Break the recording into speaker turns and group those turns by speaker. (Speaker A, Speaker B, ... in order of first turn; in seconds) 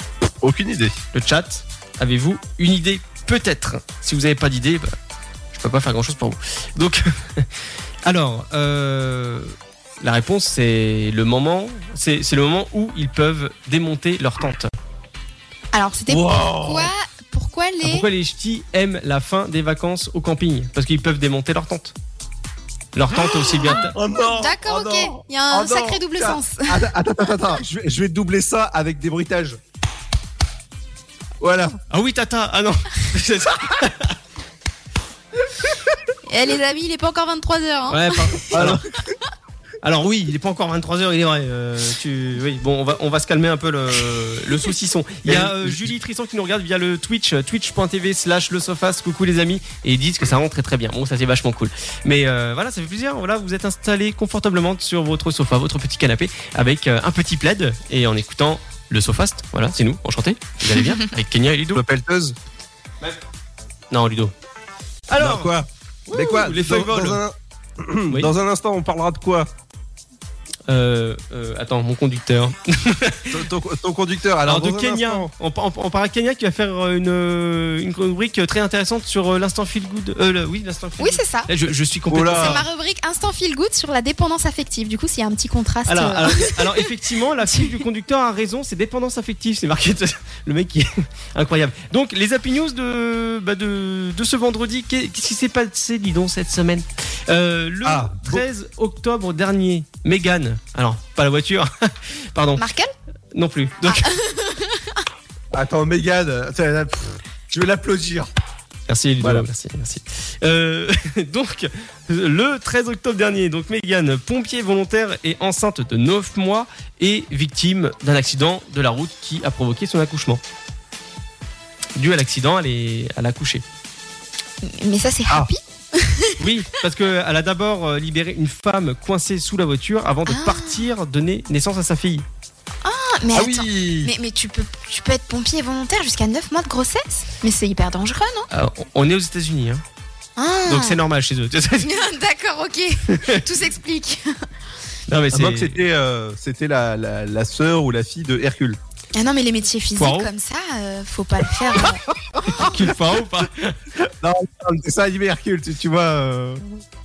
Speaker A: 0.4-0.9, 16.1-16.9, 23.2-29.6, 31.4-31.8, 38.5-38.8, 45.2-45.9, 61.7-62.4, 65.2-69.5, 73.3-75.3, 82.1-82.6, 97.8-98.4, 105.5-108.3, 109.2-109.5, 133.3-134.1, 145.3-148.8, 152.3-152.8, 154.2-156.8
Speaker B: 1.1-4.9, 5.5-7.5, 8.0-14.7, 17.8-21.9, 22.9-23.9, 31.9-34.2, 37.9-38.8, 39.8-61.8, 63.9-64.3, 65.1-65.5, 66.1-67.2, 70.7-73.4, 74.5-82.6, 85.9-102.6, 103.3-104.1, 108.9-120.4, 122.0-123.6, 126.4-132.2, 138.5-139.8, 140.7-142.0, 143.1-143.4, 145.1-145.8, 149.9-150.3, 152.6-153.8
Speaker C: 15.7-18.1, 24.3-26.8, 36.2-38.5, 81.0-81.5, 82.3-86.8, 87.4-87.7, 102.6-102.9, 103.8-104.9, 124.6-126.3, 130.3-130.7, 132.8-138.5, 140.4-141.0, 141.8-144.4, 149.1-152.0